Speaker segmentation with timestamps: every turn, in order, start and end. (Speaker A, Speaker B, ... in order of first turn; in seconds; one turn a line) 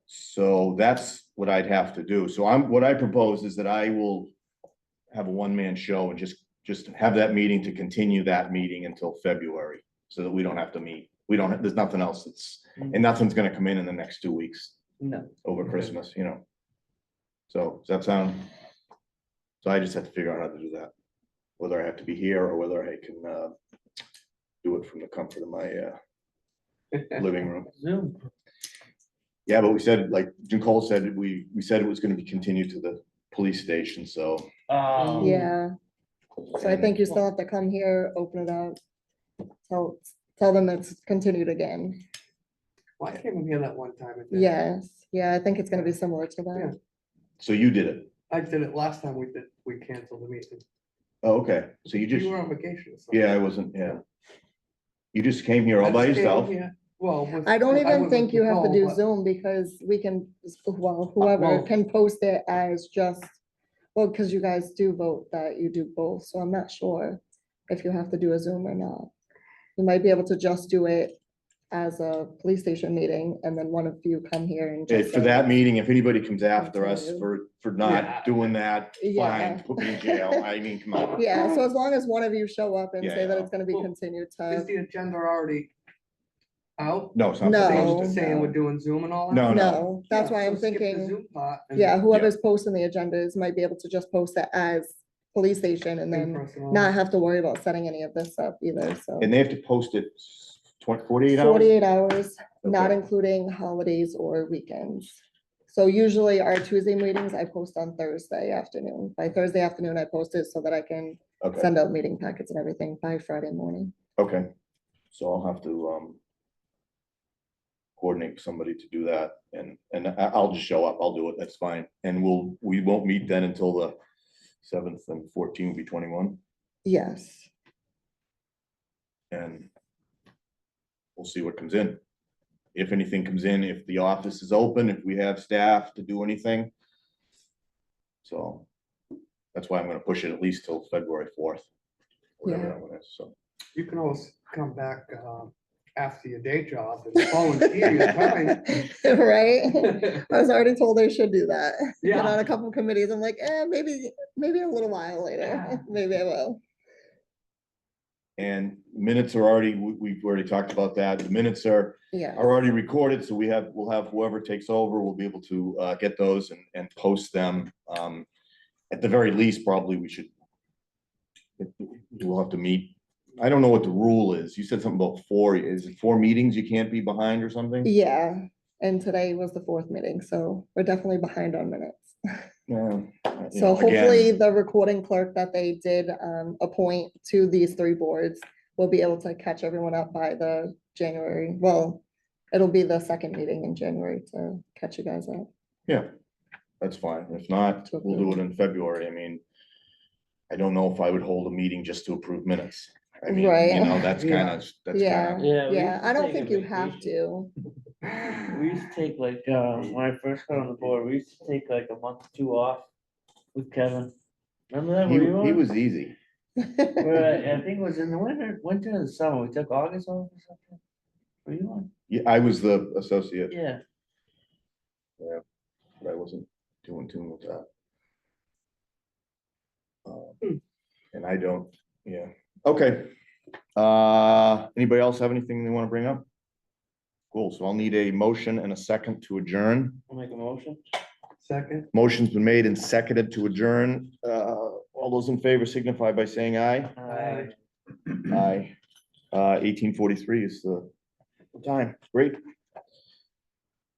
Speaker A: 0.1-4.3
Speaker A: 5.1-14.8
Speaker B: 15.0-15.3
Speaker A: 15.4-16.4
Speaker A: 17.5-18.5
Speaker A: 19.6-20.9
Speaker A: 21.6-23.5
Speaker A: 24.6-26.0
Speaker A: 27.1-27.7
Speaker C: 27.7-28.3
Speaker A: 29.5-34.5
Speaker C: 34.7-35.5
Speaker B: 35.0-35.3
Speaker D: 35.2-35.7
Speaker A: 36.6-37.0
Speaker D: 36.6-38.8
Speaker D: 39.7-42.0
Speaker B: 43.0-44.6
Speaker D: 44.3-46.7
Speaker A: 47.4-48.1
Speaker B: 48.3-50.6
Speaker A: 51.2-52.4
Speaker B: 52.1-53.4
Speaker A: 53.1-54.0
Speaker A: 55.1-56.6
Speaker B: 55.8-59.0
Speaker D: 57.5-63.4
Speaker B: 61.2-61.7
Speaker D: 64.0-69.1
Speaker D: 69.8-71.2
Speaker D: 71.7-75.5
Speaker A: 74.9-81.3
Speaker D: 76.6-77.3
Speaker D: 79.0-80.5
Speaker D: 81.2-84.7
Speaker A: 83.0-83.5
Speaker B: 84.5-85.7
Speaker B: 86.8-89.5
Speaker A: 87.2-88.2
Speaker D: 87.4-88.6
Speaker A: 89.3-89.9
Speaker D: 89.5-91.2
Speaker B: 90.0-92.0
Speaker D: 91.8-99.3
Speaker B: 96.1-96.9
Speaker A: 99.2-101.8
Speaker D: 101.3-105.2
Speaker A: 102.6-103.0
Speaker D: 105.7-113.9
Speaker A: 111.4-111.7
Speaker A: 114.2-114.5
Speaker A: 115.1-116.2
Speaker A: 118.0-124.0
Speaker A: 124.6-126.4
Speaker D: 126.8-127.5
Speaker A: 129.3-129.7
Speaker A: 131.2-132.0
Speaker A: 132.8-136.7
Speaker A: 138.2-138.7
Speaker A: 139.5-141.7
Speaker A: 142.4-143.3
Speaker D: 142.4-142.8
Speaker B: 143.7-148.8
Speaker D: 147.2-156.6
Speaker B: 149.9-150.2
Speaker B: 152.0-152.4
Speaker B: 155.5-155.8
Speaker A: 158.4-168.3
Speaker D: 162.1-162.4
Speaker A: 168.9-170.3
Speaker A: 171.6-177.9
Speaker D: 177.8-182.2
Speaker A: 182.7-184.3
Speaker D: 183.5-195.5
Speaker A: 196.8-199.4
Speaker D: 197.9-198.4
Speaker A: 200.5-205.5
Speaker D: 203.3-204.1
Speaker B: 204.1-204.6
Speaker D: 204.9-207.5
Speaker C: 205.4-207.1
Speaker C: 208.1-212.9
Speaker C: 213.5-214.1
Speaker C: 214.7-215.6
Speaker A: 215.1-216.2
Speaker D: 216.6-217.1
Speaker C: 217.0-220.8
Speaker C: 221.5-221.9
Speaker A: 222.1-223.5
Speaker C: 223.5-223.8
Speaker A: 226.0-227.7
Speaker A: 230.1-230.4
Speaker A: 231.1-233.1
Speaker A: 233.8-236.2
Speaker A: 237.3-240.0
Speaker C: 240.1-240.8
Speaker B: 241.4-241.9
Speaker A: 241.9-247.0
Speaker C: 247.0-247.6
Speaker B: 247.1-247.5
Speaker A: 248.1-248.7
Speaker A: 249.3-250.9
Speaker A: 251.6-252.4